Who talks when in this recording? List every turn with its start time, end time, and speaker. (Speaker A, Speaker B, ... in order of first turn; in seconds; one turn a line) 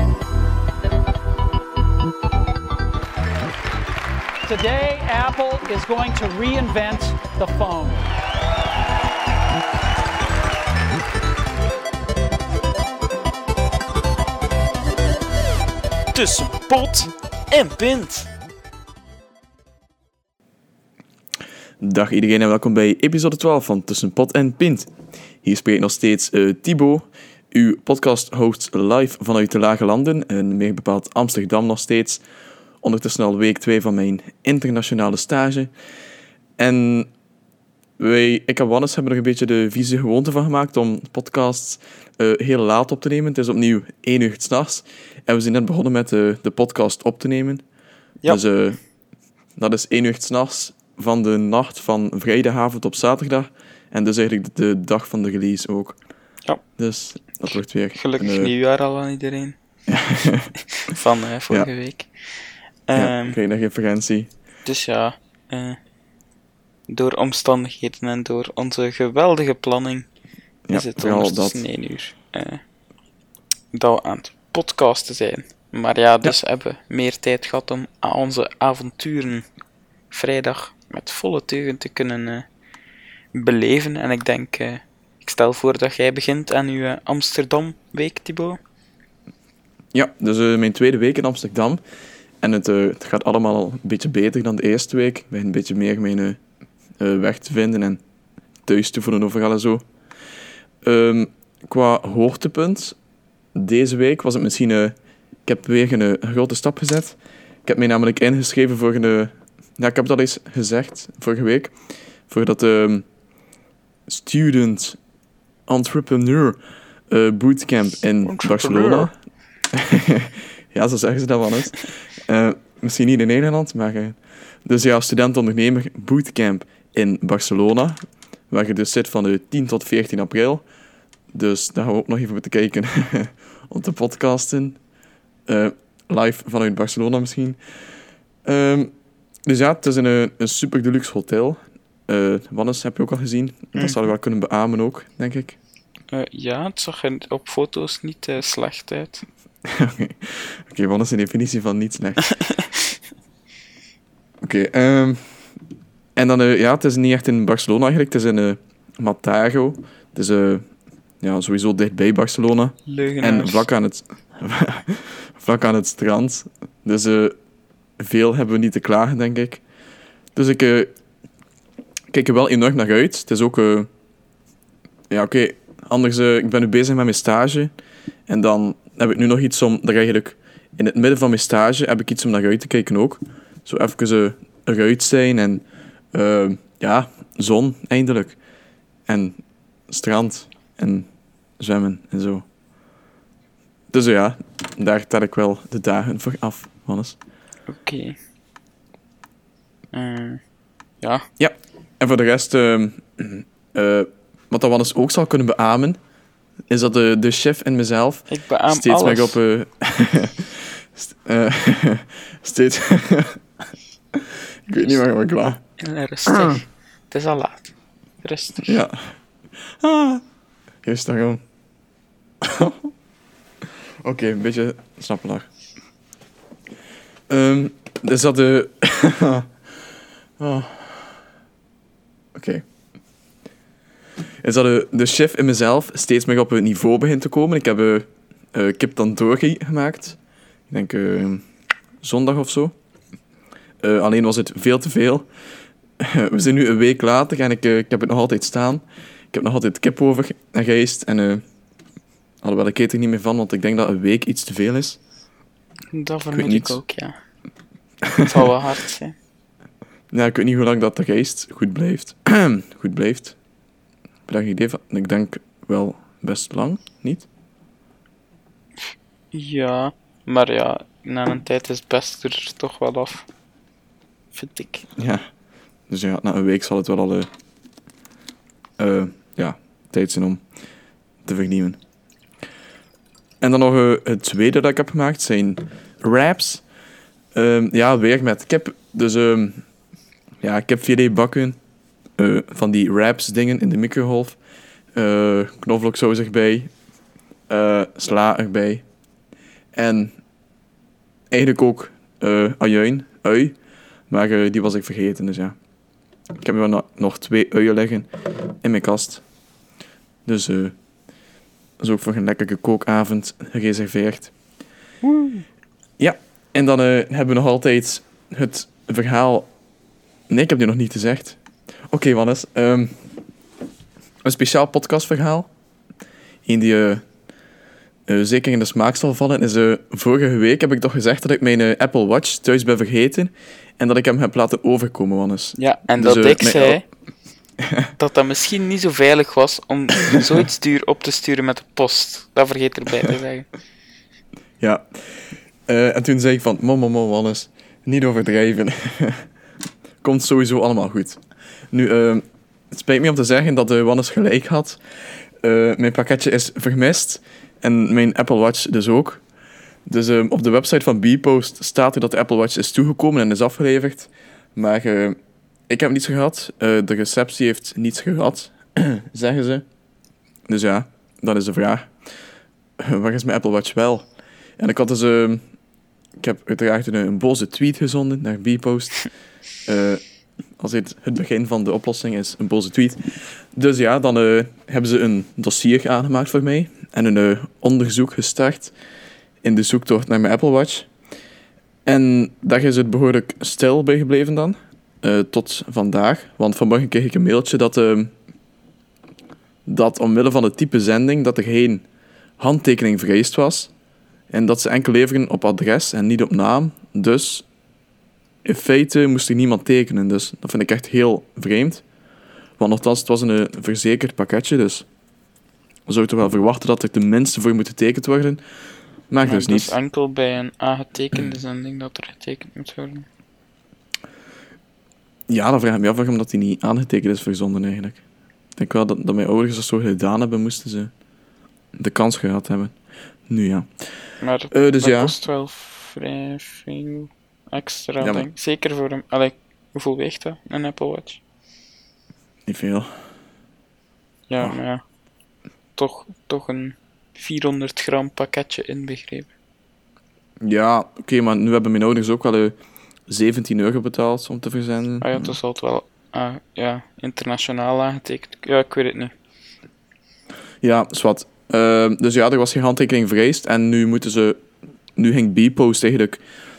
Speaker A: 4.4-8.1
Speaker B: 16.1-18.3
Speaker C: 21.8-32.2
Speaker C: 32.8-35.7
Speaker C: 36.6-37.1
Speaker C: 38.0-47.6
Speaker C: 48.3-48.8
Speaker C: 49.5-56.0
Speaker C: 56.7-58.5
Speaker B: 57.4-59.6
Speaker C: 59.9-60.5
Speaker B: 60.8-63.4
Speaker C: 62.9-64.3
Speaker B: 64.6-65.8
Speaker B: 66.9-70.1
Speaker C: 70.7-71.6
Speaker B: 70.7-72.6
Speaker B: 73.7-79.5
Speaker B: 80.1-82.5
Speaker B: 83.3-88.6
Speaker C: 89.9-91.8
Speaker C: 92.4-96.4
Speaker C: 97.0-98.0
Speaker C: 98.6-99.8
Speaker C: 100.8-103.0
Speaker C: 103.5-113.0
Speaker C: 114.1-115.0
Speaker C: 115.7-119.1
Speaker B: 118.2-119.1
Speaker C: 119.7-130.6
Speaker C: 131.3-134.8
Speaker C: 135.4-137.6
Speaker C: 138.4-138.9
Speaker C: 139.4-145.6
Speaker B: 143.7-144.0
Speaker B: 146.1-149.2
Speaker C: 149.6-152.2
Speaker C: 154.4-155.5
Speaker C: 156.1-160.7
Speaker C: 161.2-167.4
Speaker B: 162.8-163.7
Speaker C: 168.0-169.6
Speaker C: 170.3-170.9
Speaker C: 172.1-173.9
Speaker C: 175.1-177.7
Speaker C: 178.3-188.4
Speaker C: 189.1-192.4
Speaker C: 193.9-197.2
Speaker B: 197.7-198.2
Speaker B: 199.9-200.4
Speaker B: 201.0-201.3
Speaker C: 201.4-206.0
Speaker C: 206.7-213.4
Speaker B: 208.3-209.4
Speaker C: 214.1-215.6
Speaker B: 215.8-218.8
Speaker C: 216.3-216.6
Speaker C: 218.6-220.2
Speaker C: 220.8-221.4
Speaker C: 222.4-222.9
Speaker C: 224.0-225.5
Speaker C: 227.3-229.8
Speaker C: 230.4-231.2
Speaker C: 232.3-232.6
Speaker C: 234.4-240.2
Speaker C: 240.7-241.4
Speaker C: 242.0-242.7
Speaker C: 243.8-245.3
Speaker C: 246.0-251.4
Speaker C: 252.4-255.0
Speaker B: 255.9-257.2
Speaker C: 256.3-256.8
Speaker B: 258.2-259.2
Speaker C: 260.1-263.4
Speaker C: 264.3-267.3
Speaker B: 268.8-273.3
Speaker B: 274.3-274.9
Speaker C: 274.9-275.3
Speaker C: 275.9-277.3
Speaker C: 278.8-280.4
Speaker C: 281.2-281.8
Speaker C: 283.4-286.6
Speaker C: 287.3-289.6
Speaker C: 290.4-291.6
Speaker C: 292.2-294.4
Speaker C: 294.9-296.7
Speaker C: 297.5-298.8
Speaker C: 299.7-300.1
Speaker C: 301.3-303.5
Speaker C: 304.1-305.6
Speaker C: 306.4-309.2
Speaker C: 310.2-310.7
Speaker C: 311.8-314.3
Speaker B: 315.0-315.4
Speaker C: 316.0-319.5
Speaker C: 320.3-323.0
Speaker C: 324.2-325.5
Speaker C: 326.4-327.1
Speaker C: 328.1-336.8
Speaker B: 335.6-336.8
Speaker C: 337.6-337.9
Speaker B: 337.9-343.5
Speaker C: 344.6-349.3
Speaker C: 350.0-359.2
Speaker C: 359.9-365.2
Speaker C: 365.7-369.6
Speaker C: 370.5-372.1
Speaker C: 372.8-375.4
Speaker C: 376.2-379.1
Speaker C: 379.6-380.0
Speaker C: 380.6-388.7
Speaker C: 389.4-390.9
Speaker C: 391.9-398.1
Speaker C: 399.6-401.8
Speaker C: 402.4-403.7
Speaker C: 404.3-407.5
Speaker C: 408.4-411.8
Speaker C: 412.6-414.9
Speaker C: 415.9-418.4
Speaker C: 419.1-419.7
Speaker B: 419.2-423.1
Speaker C: 425.3-428.0
Speaker C: 428.6-430.9
Speaker C: 431.8-432.7
Speaker C: 433.3-435.1
Speaker B: 434.2-441.2
Speaker C: 438.0-438.3
Speaker C: 442.4-443.0
Speaker B: 444.3-444.8
Speaker B: 445.8-449.3
Speaker C: 450.4-452.5
Speaker C: 453.1-455.4
Speaker B: 455.0-459.1
Speaker C: 460.6-464.4
Speaker C: 464.9-466.2